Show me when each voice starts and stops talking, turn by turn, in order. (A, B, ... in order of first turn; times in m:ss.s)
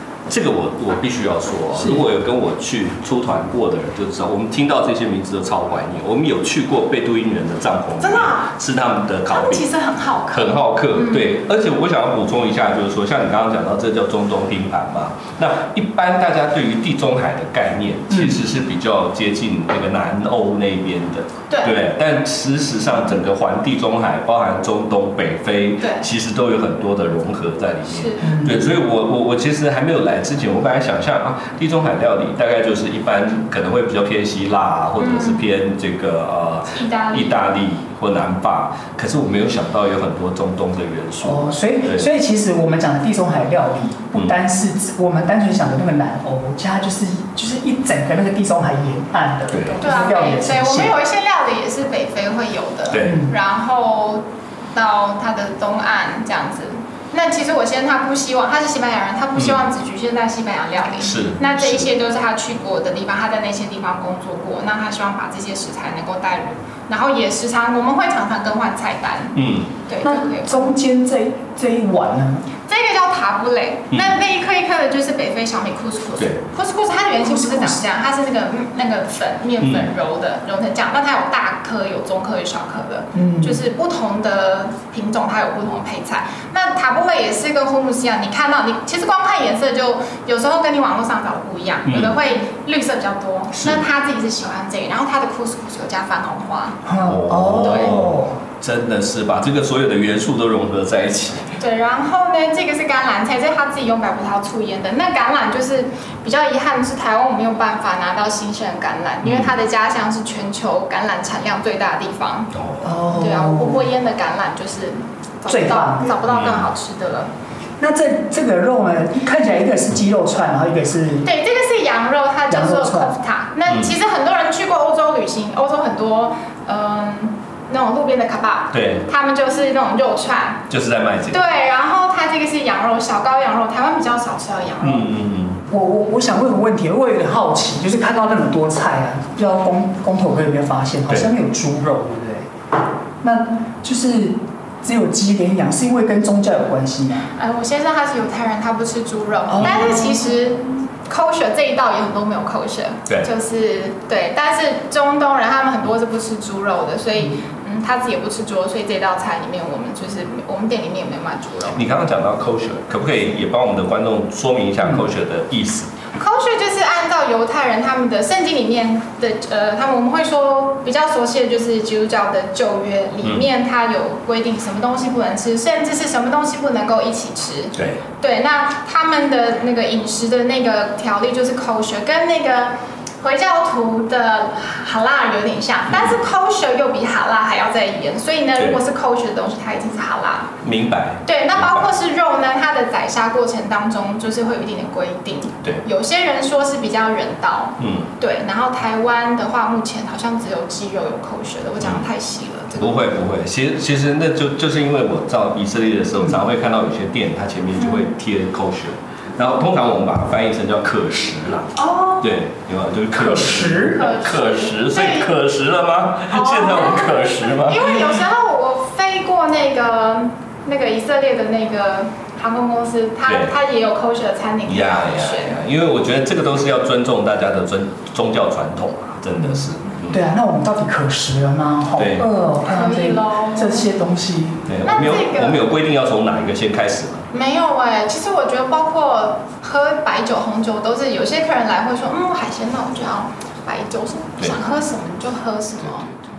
0:00.3-0:09.7 A
0:01.8-0:02.0 B
0:08.0-0:08.5 C
0:09.3-0:11.3 C
0:10.3-0:42.1 A
0:18.1-0:18.4 B
0:21.5-0:21.8 C
0:25.8-0:26.1 C
0:27.9-0:28.4 C
0:28.2-0:28.6 B
0:35.0-0:35.4 C
0:36.7-0:37.5 C
0:41.2-0:51.0 B
0:49.5-0:49.8 A
0:49.8-1:10.7 C
0:52.9-0:53.2 A
0:53.0-0:53.3 B
1:01.0-1:01.9 A
1:09.4-1:09.7 A
1:10.0-1:12.5 B
1:12.7-1:36.8 C
1:13.9-1:14.2 A
1:17.2-1:17.8 B
1:19.6-1:19.9 A
1:23.1-1:23.6 B
1:31.9-1:32.2 A
1:33.5-1:33.8 A
1:36.9-1:38.4 B
1:37.0-1:41.6 A
1:41.6-1:52.5 C
1:49.2-1:49.5 A
1:52.5-1:52.9 A
1:52.8-1:53.9 B
1:53.0-1:57.3 C
1:55.5-1:56.2 B
1:56.3-1:56.7 A
1:57.8-2:01.3 B
2:01.2-2:10.7 C
2:02.5-2:03.2 B
2:03.7-2:03.9 A
2:08.7-2:09.1 A
2:10.7-2:11.4 A
2:11.3-2:15.1 C
2:14.8-2:15.6 A
2:15.7-2:22.5 B
2:23.2-2:27.3 B
2:27.4-2:41.8 C
2:29.5-2:29.9 B
2:29.6-2:30.1 A
2:41.7-2:45.9 A
2:46.2-3:10.6 C
2:57.8-2:58.0 A
3:05.9-3:06.2 A
3:10.6-3:11.9 A
3:11.2-3:23.1 C
3:17.8-3:18.1 A
3:21.8-3:22.1 A
3:22.8-3:38.2 A
3:27.8-3:28.1 C
3:31.8-3:32.4 C
3:33.2-3:34.0 B
3:33.9-3:35.4 C
3:36.3-3:45.6 C
3:43.3-3:43.5 A
3:44.7-3:50.2 A
3:49.4-3:54.7 B
3:52.0-3:52.3 A
3:52.6-3:53.9 C
3:54.7-3:57.3 A
3:54.8-3:55.7 C
3:57.3-4:06.1 C